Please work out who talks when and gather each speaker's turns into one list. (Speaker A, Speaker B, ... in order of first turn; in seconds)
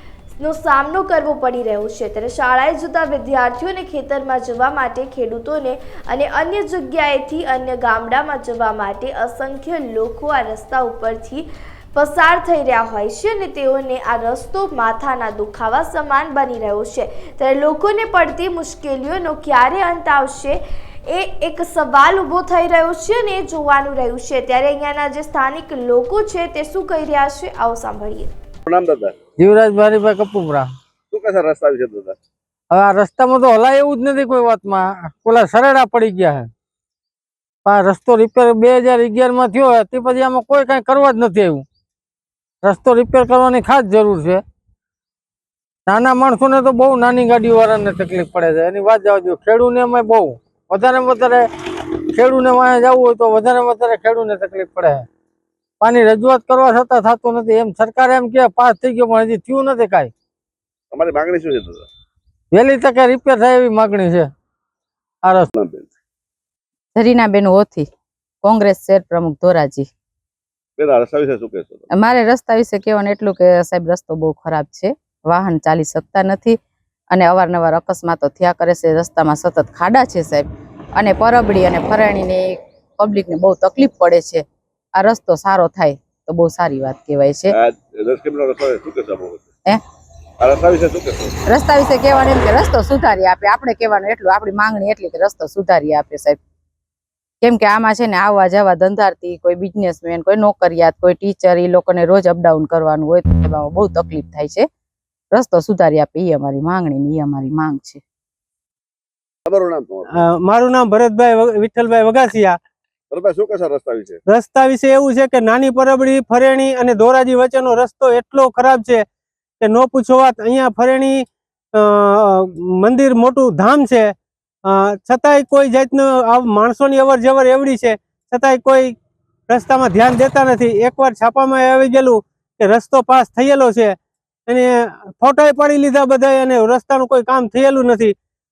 Speaker A: 0.4-28.3
Speaker B: 28.6-29.1, 31.1-32.2, 60.9-61.9, 65.5-65.9, 70.8-71.9, 87.5-89.5, 90.4-91.4, 109.5-110.1, 113.1-114.2
Speaker C: 29.4-30.7, 32.7-36.5, 37.6-41.6, 42.6-44.4, 45.9-51.5, 52.1-55.0, 55.8-60.1, 62.5-64.3
Speaker D: 66.9-67.9, 68.4-69.9, 71.9-76.6, 77.1-84.4, 85.0-87.5, 91.5-96.4, 97.4-104.7, 105.3-108.0
Speaker E: 110.1-112.6, 114.3-119.0, 119.6-124.1, 124.6-128.9, 129.5-138.1